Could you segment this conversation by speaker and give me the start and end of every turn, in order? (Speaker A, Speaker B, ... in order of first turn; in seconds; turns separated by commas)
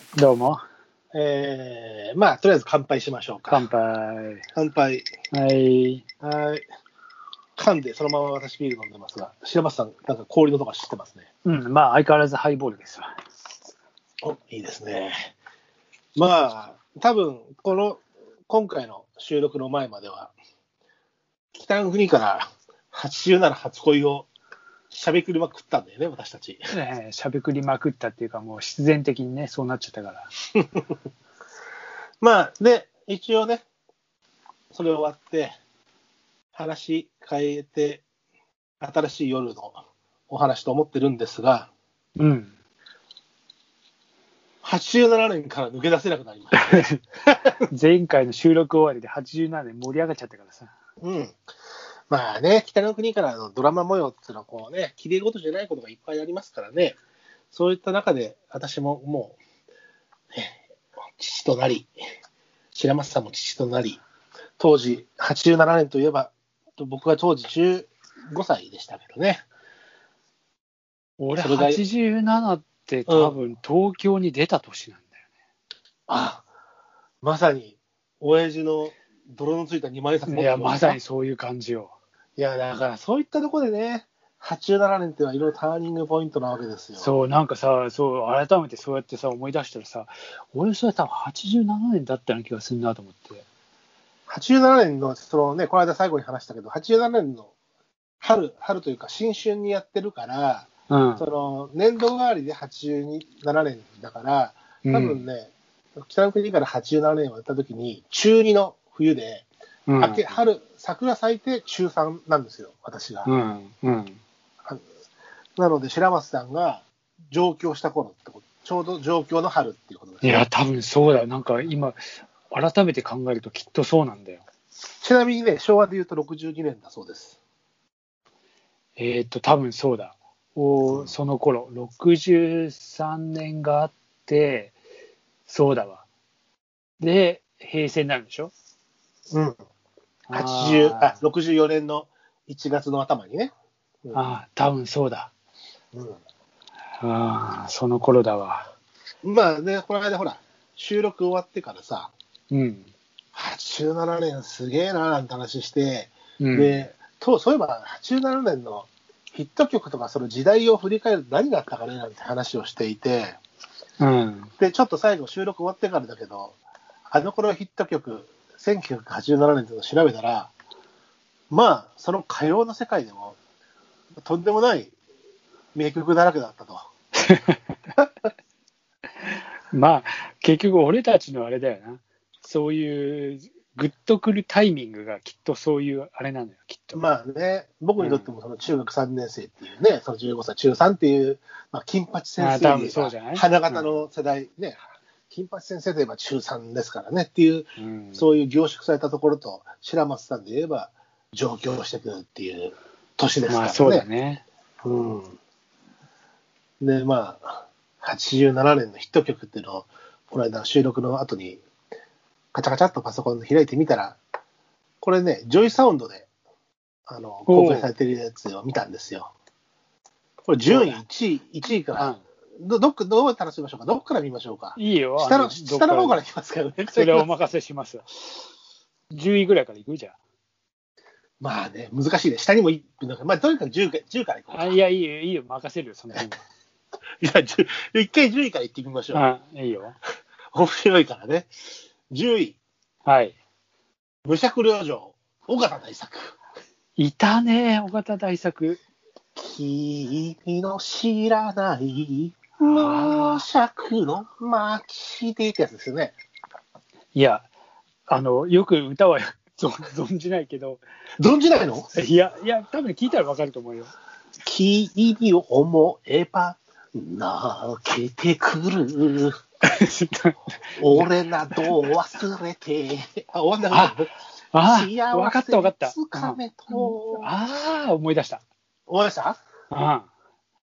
Speaker A: 0.1-0.6, Speaker B: 1.1-3.6, Speaker A: 3.5-4.5, Speaker B: 4.5-5.1, Speaker A: 5.3-6.0, Speaker B: 6.2-6.7, Speaker B: 7.6-11.3, Speaker A: 11.4-13.1, Speaker B: 14.2-15.3, Speaker B: 16.2-20.4, Speaker B: 21.5-24.3, Speaker B: 24.9-26.7, Speaker A: 26.7-30.3, Speaker B: 32.2-33.6, Speaker B: 34.7-35.6, Speaker B: 36.5-38.0, Speaker B: 38.8-41.7, Speaker A: 42.2-42.5, Speaker B: 44.6-47.4, Speaker A: 46.6-47.0, Speaker A: 47.7-50.7, Speaker B: 51.0-51.4, Speaker B: 52.1-57.0, Speaker B: 57.5-59.4, Speaker B: 60.3-60.6, Speaker B: 61.2-61.9, Speaker B: 62.7-64.0, Speaker B: 64.6-69.5, Speaker A: 71.2-75.2, Speaker B: 71.4-71.8, Speaker B: 73.1-73.4, Speaker B: 76.1-76.5, Speaker B: 77.2-81.0, Speaker A: 80.3-81.9, Speaker B: 82.4-87.1, Speaker A: 87.0-93.5, Speaker B: 94.3-97.5, Speaker B: 98.2-109.5, Speaker A: 100.9-101.2, Speaker A: 104.8-105.2, Speaker A: 109.9-110.3, Speaker B: 110.0-113.3, Speaker A: 113.3-114.2, Speaker B: 115.6-120.5, Speaker A: 120.2-124.4, Speaker B: 125.0-127.4, Speaker A: 129.0-134.8, Speaker B: 130.9-131.1, Speaker A: 135.5-136.0, Speaker A: 137.0-138.5, Speaker B: 139.3-139.6, Speaker A: 140.3-141.2, Speaker B: 140.3-143.5, Speaker A: 144.1-145.3, Speaker B: 145.9-146.2, Speaker A: 147.0-148.7, Speaker B: 149.2-152.1, Speaker A: 152.5-152.9, Speaker B: 153.3-163.4, Speaker A: 156.4-156.8, Speaker A: 164.0-164.5, Speaker B: 164.6-166.6, Speaker B: 167.1-170.5, Speaker B: 171.5-173.4, Speaker B: 174.2-174.9, Speaker B: 175.7-176.9, Speaker A: 177.2-177.6, Speaker A: 179.3-187.0, Speaker B: 186.9-204.1, Speaker A: 188.0-188.3, Speaker A: 192.4-193.9, Speaker A: 197.8-198.3, Speaker A: 203.5-204.4, Speaker B: 204.8-205.4, Speaker B: 206.8-211.6, Speaker B: 212.5-214.2, Speaker B: 215.0-216.3, Speaker B: 217.1-219.3, Speaker A: 217.5-217.9, Speaker B: 220.5-227.3, Speaker A: 220.7-221.0, Speaker A: 224.8-226.2, Speaker A: 226.9-228.3, Speaker A: 229.1-230.2, Speaker B: 231.4-234.8, Speaker A: 234.5-236.4, Speaker B: 237.2-239.2, Speaker A: 239.1-240.0, Speaker B: 240.5-241.5, Speaker B: 242.1-242.6, Speaker A: 243.1-243.4, Speaker B: 244.2-246.4, Speaker A: 247.0-248.8, Speaker B: 249.4-256.1, Speaker A: 252.6-253.4, Speaker A: 257.1-257.5, Speaker A: 258.1-260.8, Speaker B: 261.2-261.9, Speaker A: 261.9-263.9, Speaker B: 264.4-269.4, Speaker A: 269.6-271.7, Speaker B: 270.8-274.1, Speaker A: 273.7-274.0, Speaker A: 274.5-278.4, Speaker B: 274.6-277.3, Speaker B: 278.9-279.4, Speaker A: 279.7-280.1